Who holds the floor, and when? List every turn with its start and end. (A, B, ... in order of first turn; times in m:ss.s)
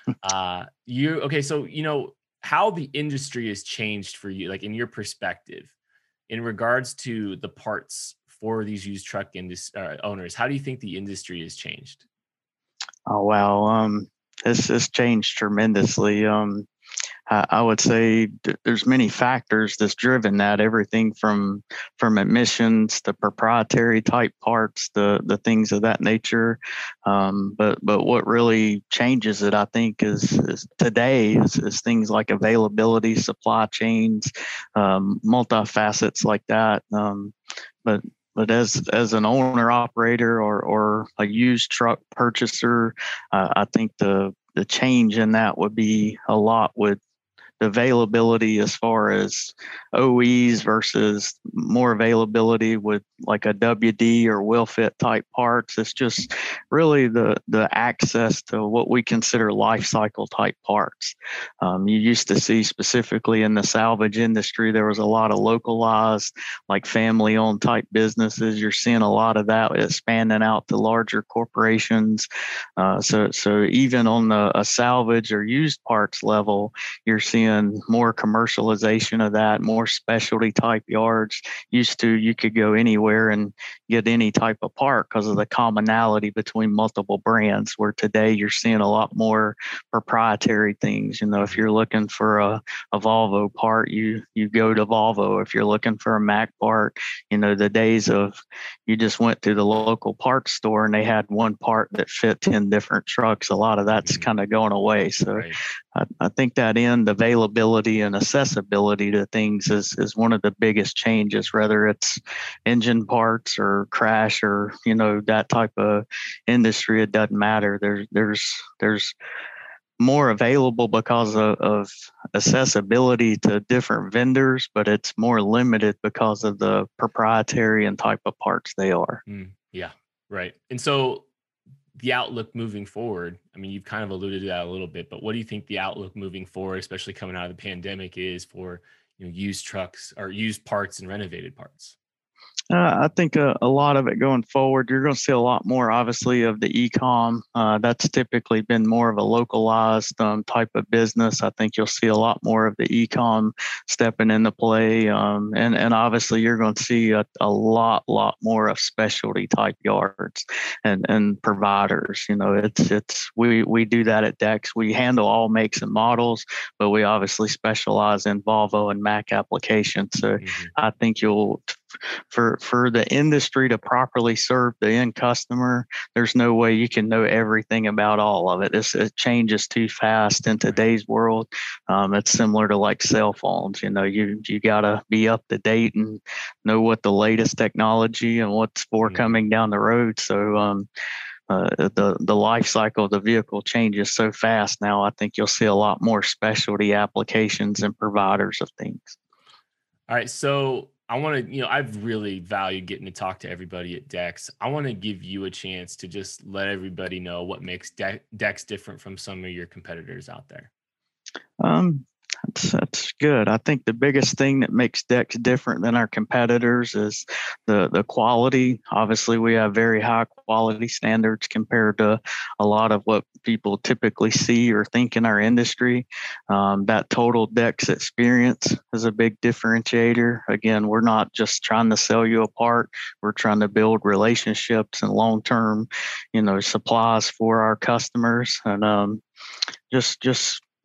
0:00.2-0:05.7 A
0:06.3-0:12.0 A
0:13.1-0:16.6 B
0:17.3-0:37.3 B
0:37.8-0:47.0 B
0:47.6-1:12.3 B
1:12.8-1:38.4 B
1:31.4-1:31.6 A
1:38.9-1:59.1 B
1:43.9-1:44.3 A
2:00.0-2:09.2 B
2:09.3-2:11.3 A
2:11.9-2:21.9 A
2:22.7-2:51.8 B
2:50.4-2:50.7 A
2:52.3-3:10.9 B
3:09.0-3:09.4 A
3:11.5-3:19.2 B
3:20.1-3:30.7 A
3:31.6-3:59.2 B
3:59.9-4:00.6 B